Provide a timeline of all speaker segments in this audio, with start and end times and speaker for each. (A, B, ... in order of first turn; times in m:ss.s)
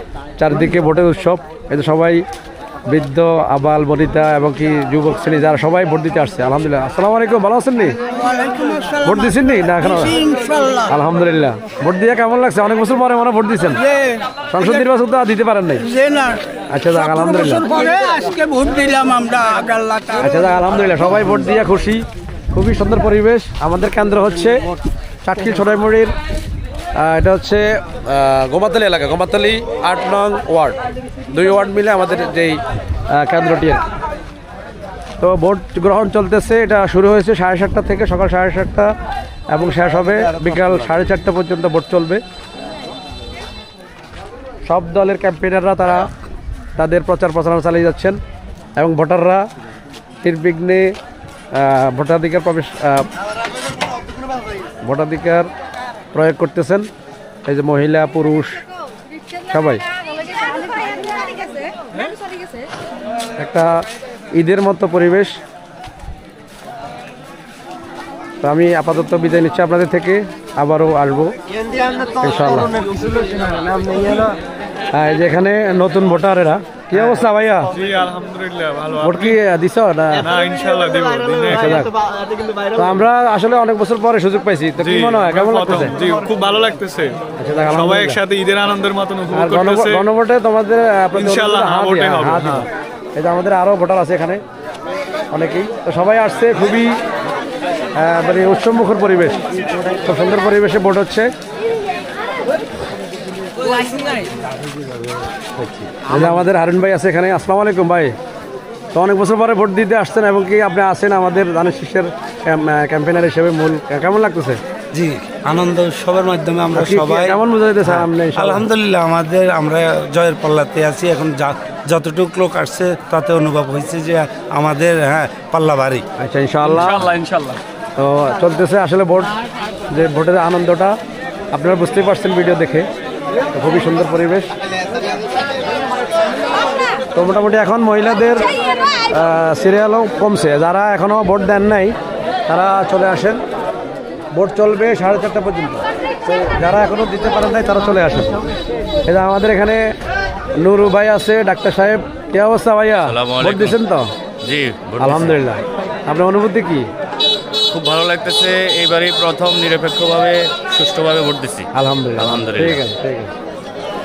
0:00.4-0:02.2 A
0:02.9-0:08.0 A
0:08.1-0:09.0 B
0:09.0-0:10.2 A
0:10.2-0:10.8 B
0:10.8-0:13.9 A
0:14.5-0:15.9 A
0:15.9-0:16.4 B
0:16.7-0:17.8 A
0:17.8-0:19.0 C
0:17.8-0:20.2 B
0:20.2-0:24.7 A
0:25.2-0:26.1 A
0:27.0-0:30.8 A
0:31.3-0:33.8 A
0:35.2-0:38.9 A
0:39.5-0:42.2 A
0:44.7-0:46.1 A
0:46.8-0:48.2 A
0:48.8-0:49.4 A
0:50.2-0:50.9 A
0:51.5-0:53.1 A
0:54.8-0:55.5 A
0:56.1-0:56.9 A
0:57.4-0:58.6 A
0:59.5-0:59.8 A
1:03.4-1:03.8 A
1:04.4-1:05.4 A
1:08.4-1:11.3 A
1:12.1-1:12.9 A
1:14.9-1:17.8 A
1:17.8-1:19.4 C
1:19.0-1:20.3 A
1:20.2-1:21.8 C
1:21.5-1:21.9 A
1:22.7-1:26.0 A
1:24.8-1:27.2 C
1:27.4-1:28.2 A
1:27.7-1:30.0 C
1:29.3-1:34.4 A
1:31.1-1:32.7 C
1:35.3-1:37.0 A
1:38.0-1:39.4 A
1:40.0-1:41.3 A
1:46.1-1:48.2 A
1:48.9-1:54.6 A
1:54.9-2:06.0 D
1:56.7-1:58.6 A
2:06.2-2:07.2 A
2:07.0-2:07.4 E
2:08.0-2:09.3 A
2:09.9-2:11.0 A
2:11.5-2:12.9 A
2:13.5-2:14.5 A
2:17.2-2:18.5 A
2:19.1-2:22.0 A
2:22.5-2:23.4 A
2:24.4-2:28.4 A
2:29.1-2:29.9 A
2:30.6-2:34.1 A
2:33.1-2:33.8 E
2:34.4-2:35.4 E
2:35.0-2:36.9 A
2:37.7-2:42.8 E
2:41.7-2:43.3 A